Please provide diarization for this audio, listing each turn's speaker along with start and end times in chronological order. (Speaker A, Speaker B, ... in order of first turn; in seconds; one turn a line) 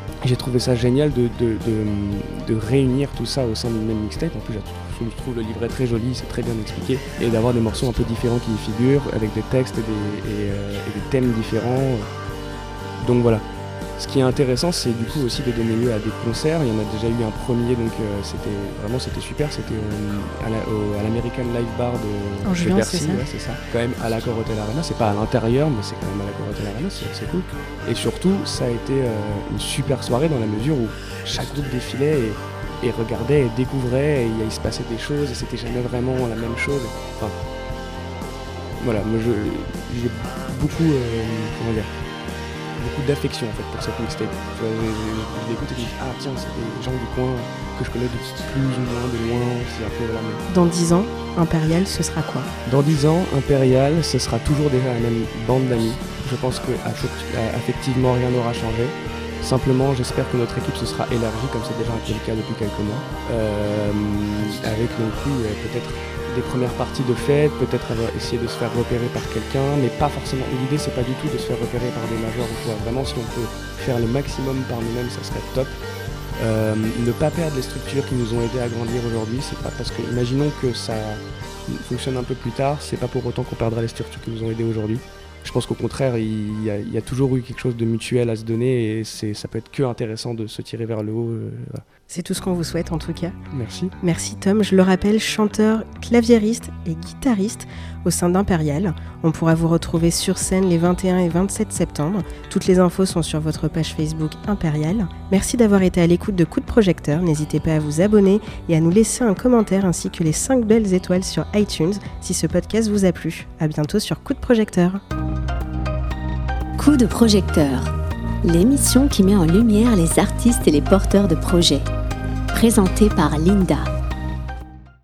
Speaker A: 0.2-12.1
Speaker A: 13.0-13.4
Speaker A: 14.0-37.4
Speaker B: 22.4-23.2
Speaker A: 38.8-41.9
Speaker A: 42.8-50.4
Speaker B: 50.5-52.5
Speaker A: 52.6-75.8
Speaker A: 76.4-91.8
Speaker B: 92.1-93.3
Speaker A: 93.5-93.9
Speaker B: 94.0-115.0
Speaker C: 116.8-121.9
Speaker C: 122.5-123.9